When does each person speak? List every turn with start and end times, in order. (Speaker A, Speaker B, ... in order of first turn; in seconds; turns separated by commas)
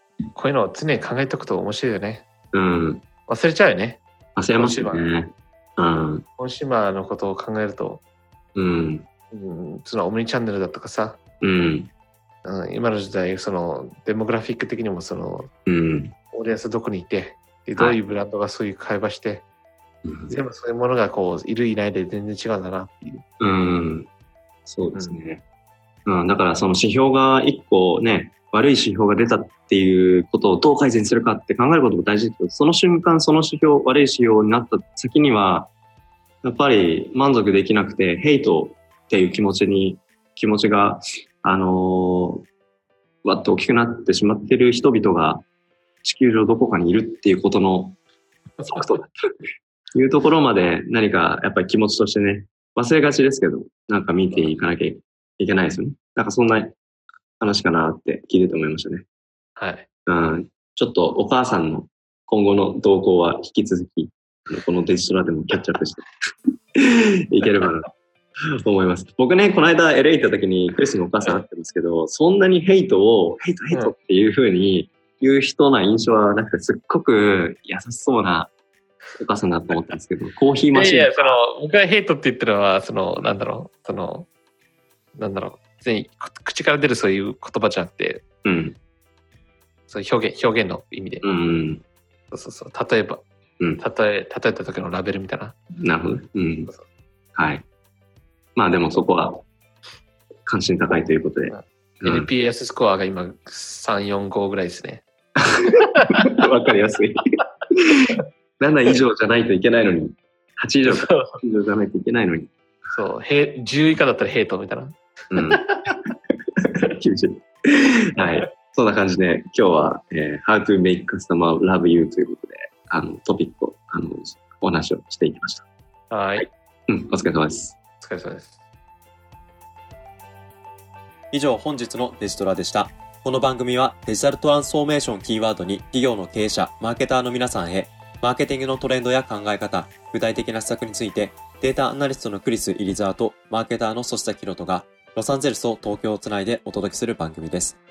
Speaker A: 0.3-2.3, Speaker B: 2.5-3.1, Speaker A: 3.3-5.1, Speaker B: 4.4-6.3, Speaker A: 6.4-8.0, Speaker B: 8.6-9.1, Speaker A: 9.3-11.2, Speaker B: 11.4-11.9, Speaker A: 12.4-15.5, Speaker B: 15.7-16.2, Speaker A: 16.3-19.4, Speaker B: 20.1-20.4, Speaker A: 20.3-23.2, Speaker B: 23.4-24.1, Speaker B: 24.7-25.4, Speaker A: 24.9-25.2, Speaker B: 26.1-35.7, Speaker B: 36.4-42.5, Speaker B: 43.2-45.5, Speaker B: 46.0-48.0, Speaker A: 48.6-49.0, Speaker B: 48.7-49.1, Speaker B: 49.9-56.8, Speaker B: 57.4-59.1, Speaker A: 59.6-59.9, Speaker B: 60.1-66.1, Speaker B: 66.8-67.9, Speaker B: 68.6-78.5, Speaker B: 79.2-81.4, Speaker A: 80.7-84.3, Speaker A: 85.2-88.2, Speaker B: 88.5-88.8, Speaker A: 89.9-91.3, Speaker B: 91.2-91.8, Speaker A: 92.3-93.2, Speaker A: 93.8-95.6, Speaker B: 95.8-96.7, Speaker B: 97.3-97.6, Speaker B: 98.6-99.5, Speaker B: 100.5-102.3, Speaker A: 101.5-105.0, Speaker B: 105.6-107.2, Speaker A: 105.6-106.3, Speaker B: 107.8-112.5, Speaker A: 110.9-111.4, Speaker A: 112.9-115.8, Speaker B: 115.3-115.7, Speaker B: 116.6-125.7, Speaker A: 126.1-126.5, Speaker B: 126.4-127.8, Speaker A: 128.0-128.6, Speaker C: 131.3-147.8